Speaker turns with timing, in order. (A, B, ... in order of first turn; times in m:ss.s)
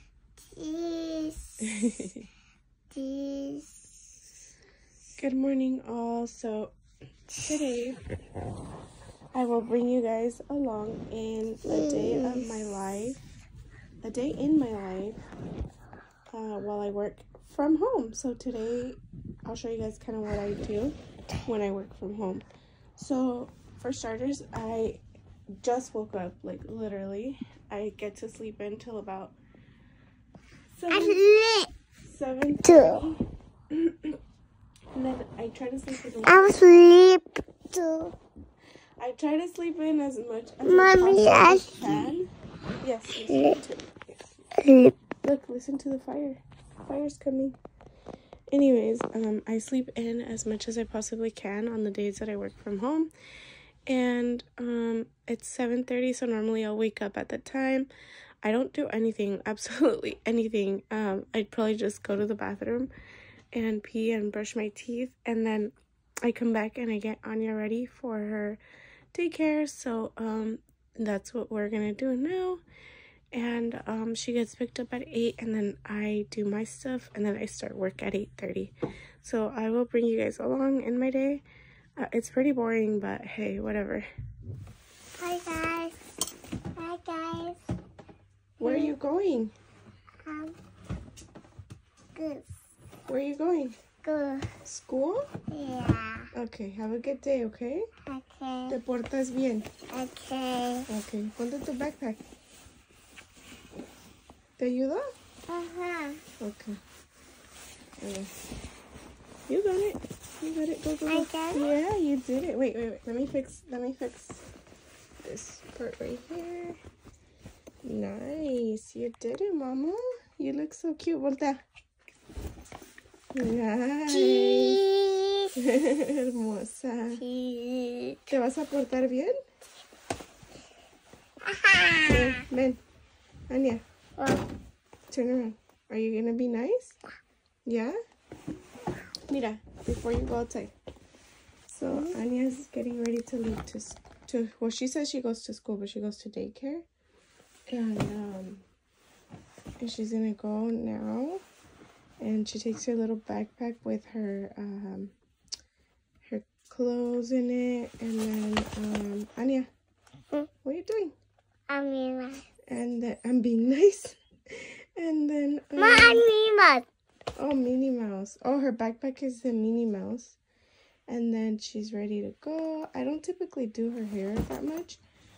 0:00.5-0:01.8 A
0:01.6-0:02.3 B
0:02.9-0:03.9 A
0:05.2-0:06.7 B
0:07.4-0:08.0 B
0:09.3-0:13.2 B
0:11.9-0:12.3 A
0:14.0-0:15.2 B
0:16.3-0:22.4 B
0:23.0-0:25.0 B
0:25.6-0:29.4 B
0:30.7-0:31.2 B
0:30.9-0:31.7 A
0:32.0-0:34.2 B
0:32.6-0:33.0 A
0:34.9-0:36.8 B
0:36.2-0:38.1 A
0:39.0-0:42.3 B
0:40.6-0:41.9 A
0:42.8-0:44.3 B
0:44.6-0:44.9 A
0:45.2-0:47.5 B
0:48.5-0:53.1 B
0:53.9-0:57.9 B
0:58.4-1:02.9 B
1:03.5-1:08.6 B
1:09.1-1:12.6 B
1:13.3-1:21.4 B
1:22.0-1:24.1 B
1:25.2-1:26.0 A
1:26.8-1:27.6 A
1:28.6-1:29.5 B
1:28.6-1:28.9 A
1:30.2-1:30.6 A
1:32.1-1:32.5 A
1:33.1-1:33.8 B
1:34.0-1:34.5 A
1:34.6-1:35.3 B
1:35.5-1:36.3 A
1:36.3-1:37.9 B
1:38.0-1:38.7 A
1:38.7-1:39.7 B
1:39.9-1:40.9 A
1:40.9-1:42.2 B
1:44.6-1:45.1 B
1:45.5-1:46.2 A
1:46.4-1:46.8 B
1:48.0-1:48.3 B
1:49.5-1:54.4 B
1:51.1-1:51.7 A
1:55.2-1:56.8 B
1:57.8-2:01.6 B
2:03.3-2:04.8 B
2:04.1-2:05.5 A
2:05.5-2:07.2 B
2:07.2-2:08.2 A
2:08.3-2:09.4 B
2:11.4-2:12.4 A
2:12.0-2:12.8 B
2:13.5-2:13.8 B
2:14.2-2:14.4 A
2:15.1-2:17.0 B
2:17.6-2:18.0 B
2:19.3-2:20.7 B
2:21.7-2:26.8 B
2:27.7-2:28.6 B
2:29.8-2:31.4 B
2:32.2-2:35.1 B
2:36.2-2:39.7 B
2:40.6-2:41.1 B
2:41.7-2:42.4 A
2:42.7-2:46.3 B
2:45.8-2:46.9 A
2:47.4-2:50.4 B
2:51.1-2:55.0 B